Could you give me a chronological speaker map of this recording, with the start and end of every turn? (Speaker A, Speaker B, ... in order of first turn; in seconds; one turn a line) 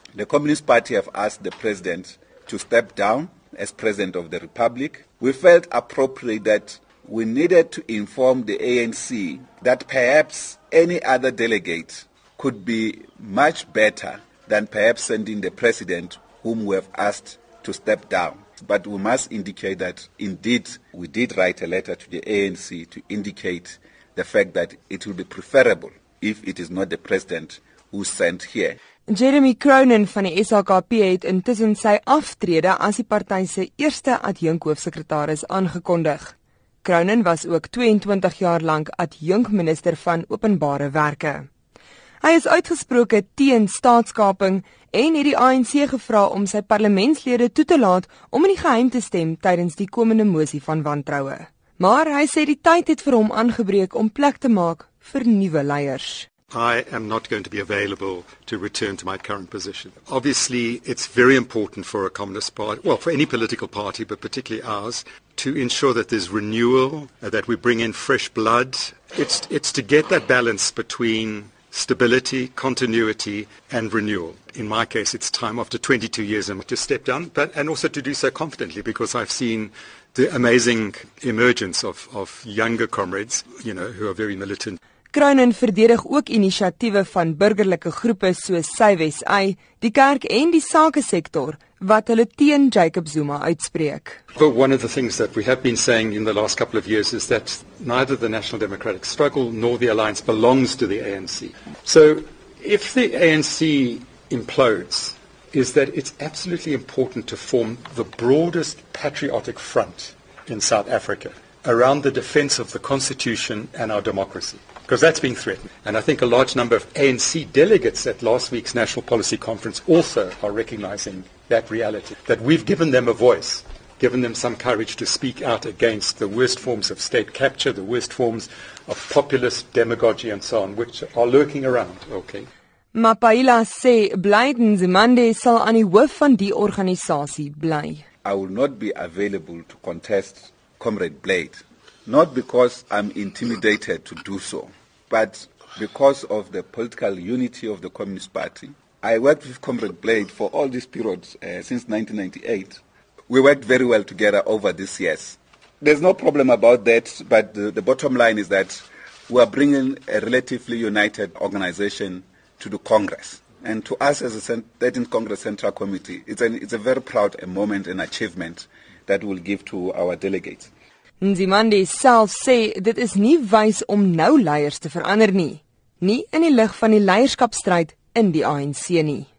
Speaker A: 0.1-28.8
Speaker B: 29.1-41.5
Speaker B: 42.2-56.3
Speaker C: 56.5-84.8
Speaker B: 85.1-94.2
Speaker C: 94.3-132.5
Speaker B: 132.9-138.0
Speaker A: 138.2-170.7
Speaker B: 171.2-179.3